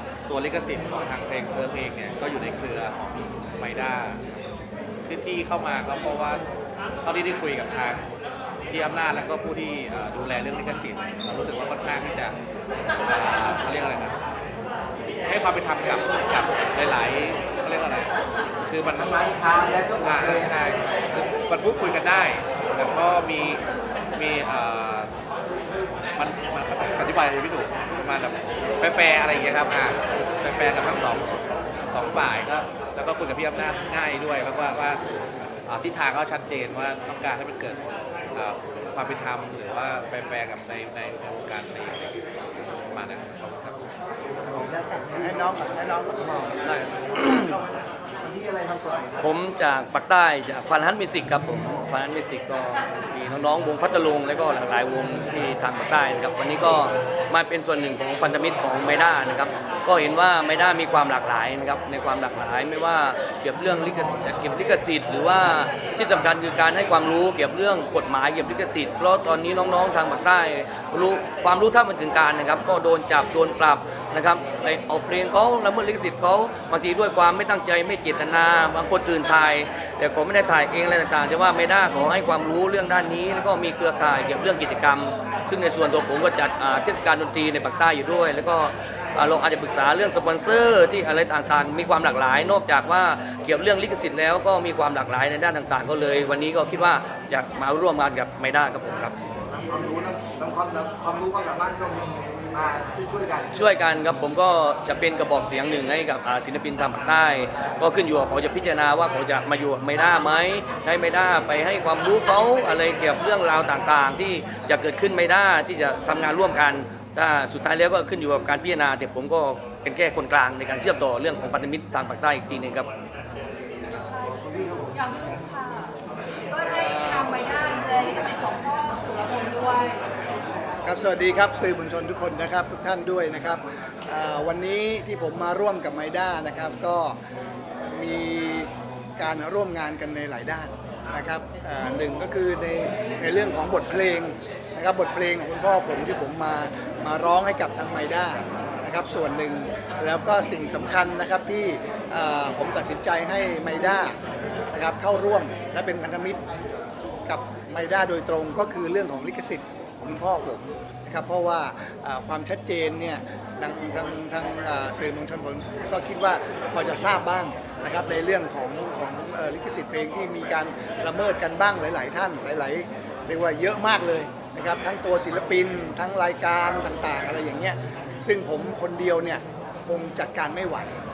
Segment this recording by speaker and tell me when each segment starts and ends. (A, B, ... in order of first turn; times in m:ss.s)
0:00.3-0:03.0 A
0:03.6-0:04.2 A
0:05.1-0:06.4 A
0:07.0-0:08.1 A
0:08.7-0:12.4 A
0:13.0-0:14.2 A
0:15.2-0:18.1 A
0:18.6-0:19.3 A
0:19.0-0:20.6 B
0:19.9-0:23.6 A
0:24.2-0:25.1 A
0:26.2-0:35.0 A
0:35.7-0:37.8 A
0:38.3-0:42.2 A
0:42.9-0:43.8 A
0:44.3-0:46.5 B
0:45.0-0:46.3 C
0:46.6-0:47.5 D
0:48.2-0:49.3 B
0:49.2-1:39.2 D
1:39.5-1:43.5 B
1:43.5-2:02.9 D
2:03.9-2:04.4 E
2:04.2-2:05.5 B
2:04.9-2:05.9 E
2:06.5-2:10.0 E
2:06.7-2:07.4 C
2:10.8-2:17.2 C
2:17.9-2:34.2 C
2:34.7-2:36.4 C
2:37.3-3:01.0 C